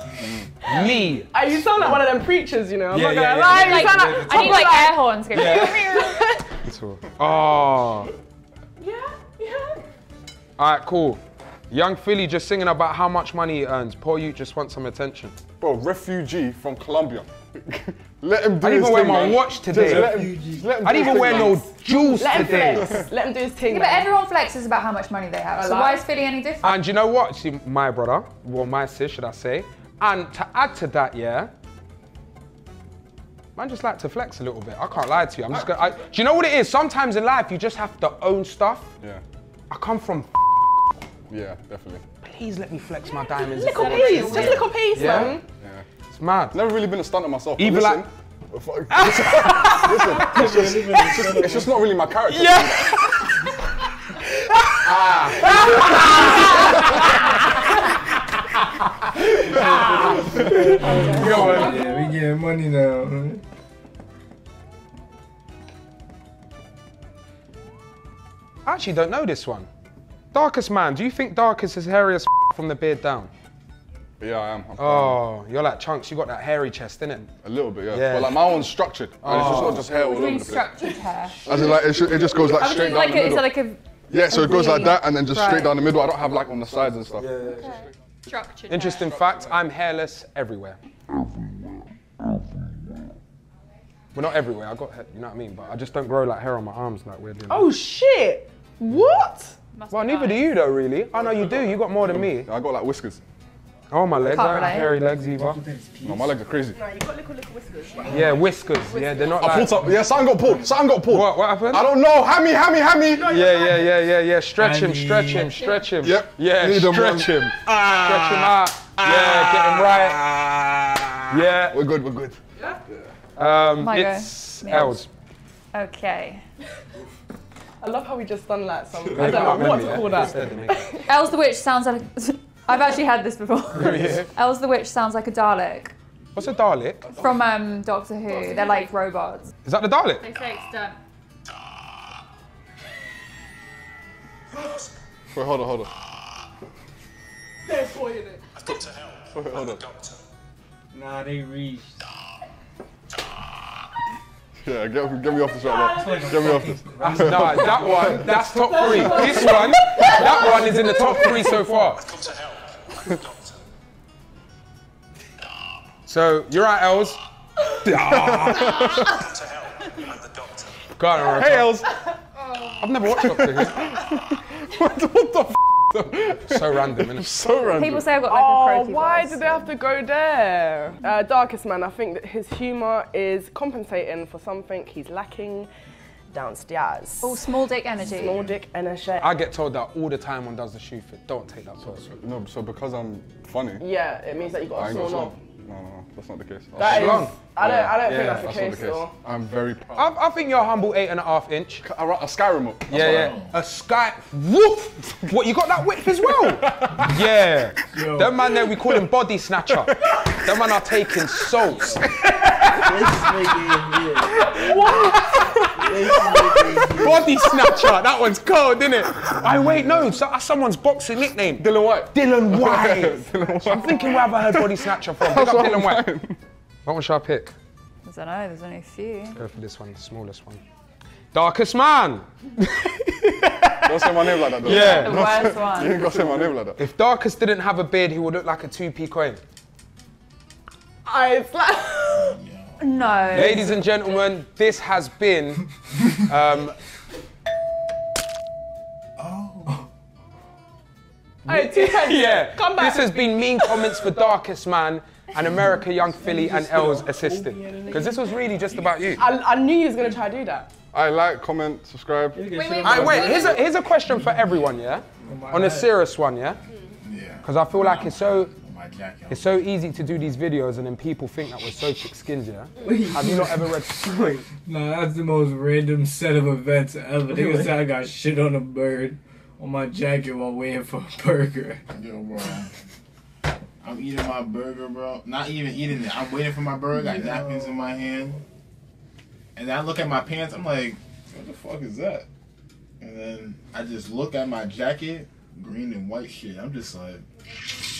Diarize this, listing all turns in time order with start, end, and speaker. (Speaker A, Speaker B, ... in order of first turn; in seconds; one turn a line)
Speaker A: 0.2-0.6
Speaker B: 0.6-2.0
Speaker C: 0.6-6.5
Speaker B: 2.9-4.7
Speaker D: 3.4-6.2
Speaker B: 5.3-5.8
Speaker B: 6.6-8.1
Speaker C: 8.8-9.8
Speaker B: 10.6-15.4
Speaker A: 15.6-21.7
Speaker B: 18.6-20.1
Speaker E: 19.1-20.7
Speaker B: 20.8-23.0
Speaker C: 20.9-24.1
Speaker A: 22.3-23.1
Speaker D: 23.7-26.8
Speaker C: 25.5-26.1
Speaker B: 26.6-31.5
Speaker B: 33.5-38.9
Speaker A: 35.5-35.8
Speaker B: 39.7-40.9
Speaker A: 41.3-42.0
Speaker B: 42.2-45.4
Speaker C: 43.5-45.4
Speaker D: 43.6-44.6
Speaker A: 44.2-45.8
Speaker B: 46.1-46.6
Speaker A: 46.5-53.0
Speaker B: 47.5-48.1
Speaker B: 48.9-50.4
Speaker E: 50.1-52.0
Speaker B: 52.2-53.5
Speaker B: 54.6-57.6
Speaker A: 54.9-55.5
Speaker B: 58.1-61.9
Speaker E: 60.0-61.7
Speaker F: 60.5-63.4
Speaker B: 68.7-69.7
Speaker B: 70.3-73.3
Speaker A: 74.2-75.2
Speaker B: 74.8-77.3
Speaker A: 77.2-80.7
Speaker B: 77.9-78.5
Speaker B: 79.2-79.9
Speaker D: 79.7-81.5
Speaker A: 81.4-83.5
Speaker D: 82.5-85.8
Speaker A: 84.1-87.3
Speaker B: 87.2-87.7
Speaker D: 87.4-89.0
Speaker B: 88.7-90.8
Speaker A: 89.0-89.6
Speaker B: 94.1-97.7
Speaker C: 97.5-99.5
Speaker D: 99.7-100.5
Speaker B: 99.9-102.5
Speaker A: 101.1-103.2
Speaker B: 103.9-105.6
Speaker D: 104.2-104.9
Speaker E: 104.3-106.4
Speaker A: 106.0-106.8
Speaker C: 106.7-108.3
Speaker E: 108.0-108.4
Speaker B: 108.1-109.8
Speaker C: 108.9-109.4
Speaker A: 109.3-113.3
Speaker E: 109.5-110.7
Speaker B: 111.0-111.9
Speaker B: 113.2-120.3
Speaker E: 114.5-115.7
Speaker A: 116.0-123.1
Speaker B: 121.3-121.8
Speaker B: 123.3-125.1
Speaker D: 123.8-125.0
Speaker D: 125.7-126.4
Speaker C: 127.8-131.1
Speaker B: 129.1-130.8
Speaker D: 131.1-135.9
Speaker B: 133.8-134.3
Speaker B: 136.3-137.1
Speaker D: 137.1-139.5
Speaker C: 138.3-138.9
Speaker B: 139.6-140.2
Speaker D: 140.2-141.0
Speaker A: 145.3-145.9
Speaker A: 149.1-149.9
Speaker E: 150.9-152.0
Speaker A: 154.6-158.3
Speaker E: 155.8-158.7
Speaker B: 157.0-162.1
Speaker A: 158.9-161.9
Speaker B: 166.1-167.2
Speaker B: 167.8-169.0
Speaker A: 167.9-169.3
Speaker B: 171.0-171.8
Speaker A: 171.3-172.0
Speaker B: 172.7-173.8
Speaker A: 173.1-178.1
Speaker B: 176.2-177.3
Speaker D: 177.6-179.7
Speaker C: 178.2-185.7
Speaker C: 186.3-187.4
Speaker D: 187.2-188.4
Speaker G: 188.0-188.6
Speaker C: 188.0-189.3
Speaker B: 189.2-192.2
Speaker A: 192.0-193.8
Speaker C: 193.8-195.3
Speaker A: 194.7-200.1
Speaker B: 196.8-197.4
Speaker C: 196.8-199.1
Speaker B: 198.0-198.5
Speaker B: 199.9-201.8
Speaker A: 201.8-203.4
Speaker B: 202.9-213.2
Speaker G: 202.9-203.5
Speaker A: 205.3-207.2
Speaker F: 207.9-208.5
Speaker A: 208.5-209.1
Speaker A: 209.7-210.2
Speaker E: 211.7-212.0
Speaker E: 212.7-215.1
Speaker C: 214.6-215.1
Speaker B: 215.0-216.1
Speaker E: 215.8-217.8
Speaker B: 216.9-226.1
Speaker A: 219.2-220.1
Speaker A: 221.5-226.4
Speaker B: 226.8-227.5
Speaker D: 228.0-229.4
Speaker B: 229.3-230.6
Speaker B: 231.3-235.3
Speaker A: 233.8-236.8
Speaker D: 234.6-236.1
Speaker B: 236.8-239.4
Speaker C: 241.1-242.4
Speaker G: 242.2-243.6
Speaker D: 242.8-243.8
Speaker B: 243.3-246.8
Speaker G: 249.2-249.9
Speaker B: 251.4-259.2
Speaker C: 251.4-254.2
Speaker E: 256.1-258.0
Speaker C: 257.6-258.1
Speaker C: 259.1-260.7
Speaker A: 260.9-262.5
Speaker E: 262.3-263.6
Speaker D: 262.6-263.1
Speaker B: 262.8-266.6
Speaker G: 264.1-264.5
Speaker F: 265.2-265.9
Speaker G: 267.0-269.7
Speaker B: 267.4-268.5
Speaker B: 269.3-274.1
Speaker E: 272.8-274.5
Speaker F: 274.6-281.8
Speaker E: 277.3-277.8
Speaker G: 281.9-282.7
Speaker G: 283.8-288.4
Speaker G: 289.5-292.3
Speaker G: 293.0-297.2